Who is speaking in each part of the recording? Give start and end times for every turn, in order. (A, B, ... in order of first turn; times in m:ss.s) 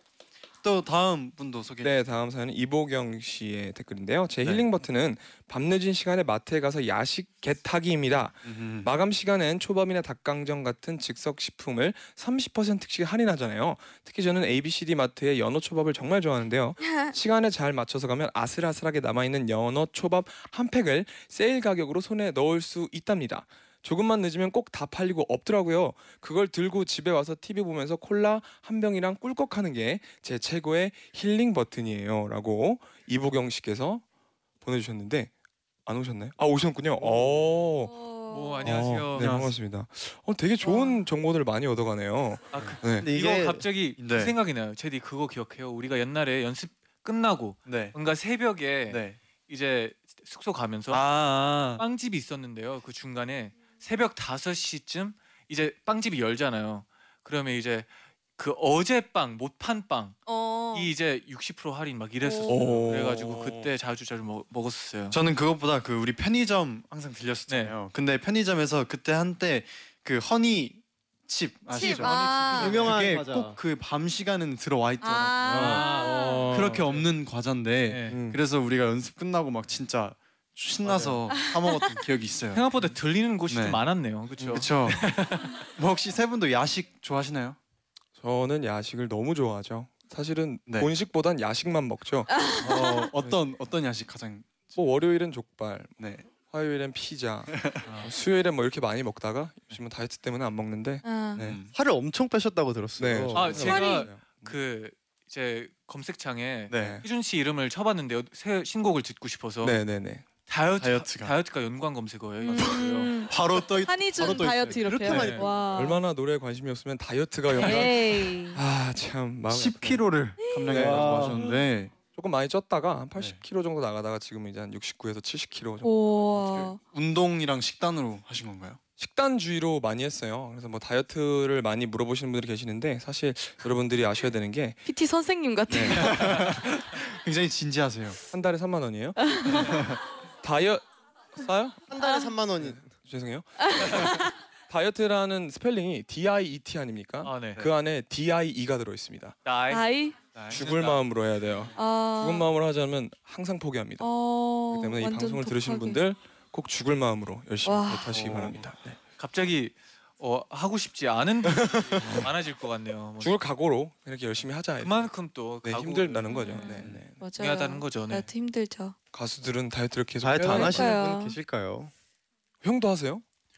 0:00.6-0:01.9 A
0:01.8-0:34.0 B
0:08.4-0:08.9 A
0:16.8-0:17.1 C
0:34.6-0:35.3 B
0:35.9-0:37.9 B
0:37.0-0:37.5 A
0:37.8-0:38.8 C
0:38.3-0:39.5 D
0:38.6-0:43.1 B
0:39.2-0:39.5 A
0:40.6-0:41.0 C
0:42.5-0:51.1 D
0:43.0-0:43.7 E
0:44.0-0:44.3 A
0:47.7-0:48.0 A
0:48.9-0:49.2 A
0:50.9-0:51.8 A
0:51.8-1:00.2 D
1:00.3-1:00.9 C
1:00.7-1:05.2 D
1:02.2-1:02.6 C
1:02.5-1:03.7 B
1:05.1-1:15.9 A
1:07.5-1:07.8 D
1:11.7-1:12.9 C
1:11.9-1:13.6 E
1:12.3-1:12.9 D
1:15.0-1:16.5 C
1:15.5-1:17.1 D
1:15.9-1:16.9 B
1:16.5-1:22.6 A
1:17.9-1:18.2 D
1:18.1-1:18.4 B
1:21.4-1:21.9 C
1:22.5-1:25.6 D
1:23.5-1:23.8 A
1:24.4-1:24.6 B
1:24.5-1:25.0 A
1:25.8-1:27.6 A
1:28.2-1:32.5 B
1:32.3-1:33.1 C
1:32.6-1:34.8 A
1:34.8-1:41.6 B
1:36.0-1:36.3 A
1:37.5-1:37.9 A
1:37.9-1:38.1 D
1:41.0-1:41.4 C
1:41.4-1:41.7 A
1:41.7-1:43.8 E
1:43.0-1:44.6 B
1:43.3-1:49.8 D
1:43.6-1:44.1 C
1:46.7-1:47.0 A
1:46.8-1:47.0 B
1:49.6-1:50.3 B
1:50.5-1:53.3 D
1:50.8-1:51.4 A
1:52.4-1:56.0 C
1:52.5-1:55.3 A
1:54.2-1:55.7 E
1:55.0-1:55.5 D
1:55.7-2:00.0 B
1:57.6-1:58.6 C
1:59.5-2:02.0 A
2:00.6-2:01.4 B
2:00.7-2:01.4 E
2:02.1-2:06.7 B
2:05.8-2:06.8 C
2:06.6-2:08.8 A
2:09.0-2:14.8 B
2:14.9-2:16.3 C
2:15.7-2:16.3 B
2:15.9-2:18.2 A
2:18.3-2:19.8 B
2:19.2-2:19.8 C
2:19.6-2:20.0 A
2:20.4-2:20.8 B
2:21.3-2:21.8 B
2:21.9-2:22.9 E
2:22.0-2:22.3 C
2:22.6-2:29.4 B
2:23.6-2:24.3 C
2:27.2-2:27.7 D
2:29.4-2:29.8 D
2:29.7-2:30.2 C
2:30.4-2:30.6 A
2:30.5-2:31.0 D
2:30.5-2:34.1 B
2:31.8-2:32.5 C
2:34.0-2:36.0 C
2:34.7-2:39.0 B
2:37.6-2:38.1 C
2:38.1-2:38.7 A
2:39.2-2:43.4 D
2:42.0-2:42.3 B
2:43.2-2:45.1 B
2:44.8-2:48.3 D
2:45.6-2:47.2 B
2:46.3-2:49.0 C
2:49.1-2:51.0 B
2:50.2-2:51.9 E
2:50.4-2:51.4 C
2:52.6-2:53.2 B